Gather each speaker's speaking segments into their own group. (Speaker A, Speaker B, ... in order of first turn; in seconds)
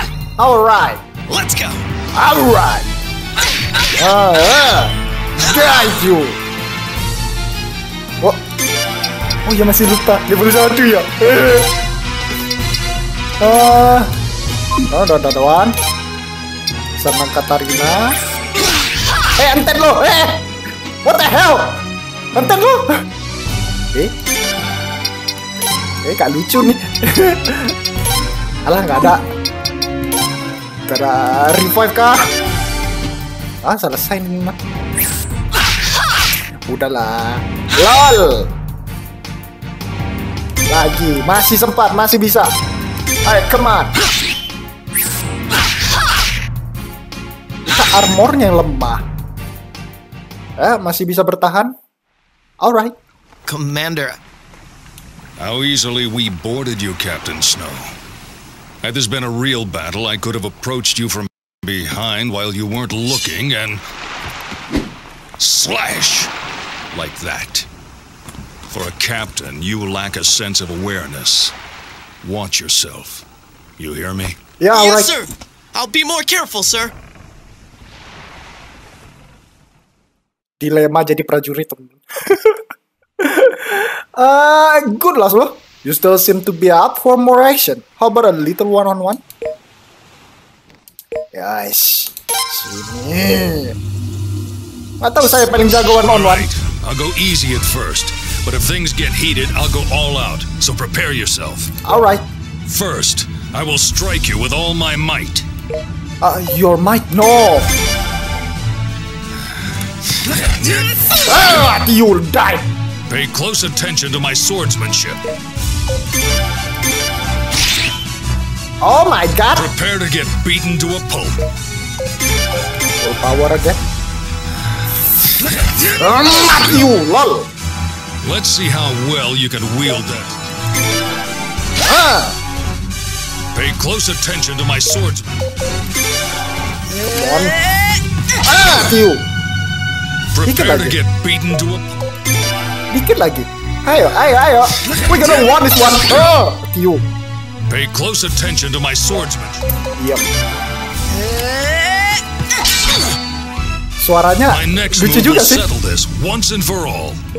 Speaker A: 0.4-1.0, 2.1-2.9, 3.9-6.4, 9.4-11.7, 13.4-14.1, 14.9-15.7, 17.0-18.2, 19.4-20.4, 21.0-21.8, 22.3-23.0, 26.0-27.7, 28.7-29.2, 30.9-32.3, 33.6-34.6, 36.5-38.5, 40.7-42.5, 43.2-44.0, 47.7-49.0, 50.6-51.7, 52.6-52.9, 74.6-75.1, 80.6-82.6, 83.2-89.2, 91.3-93.7, 95.0-96.5, 101.8-102.2, 106.2-107.8, 111.2-112.7, 118.8-119.7, 123.0-123.8, 126.0-127.5, 131.8-132.4, 137.0-137.6, 138.4-139.3, 140.4-141.0, 142.9-147.0, 150.0-150.3, 154.0-155.7
Speaker B: 1.3-1.8, 53.5-54.2, 74.7-76.9, 151.2-151.9
Speaker C: 55.4-57.9, 58.8-63.8, 65.4-66.3, 66.9-67.7, 68.7-71.5, 72.2-73.2, 73.8-74.4, 96.0-101.7, 102.7-105.5, 113.1-115.2, 119.5-121.4, 128.2-130.4, 133.5-135.4, 140.3-142.0, 147.7-149.6, 154.5-157.2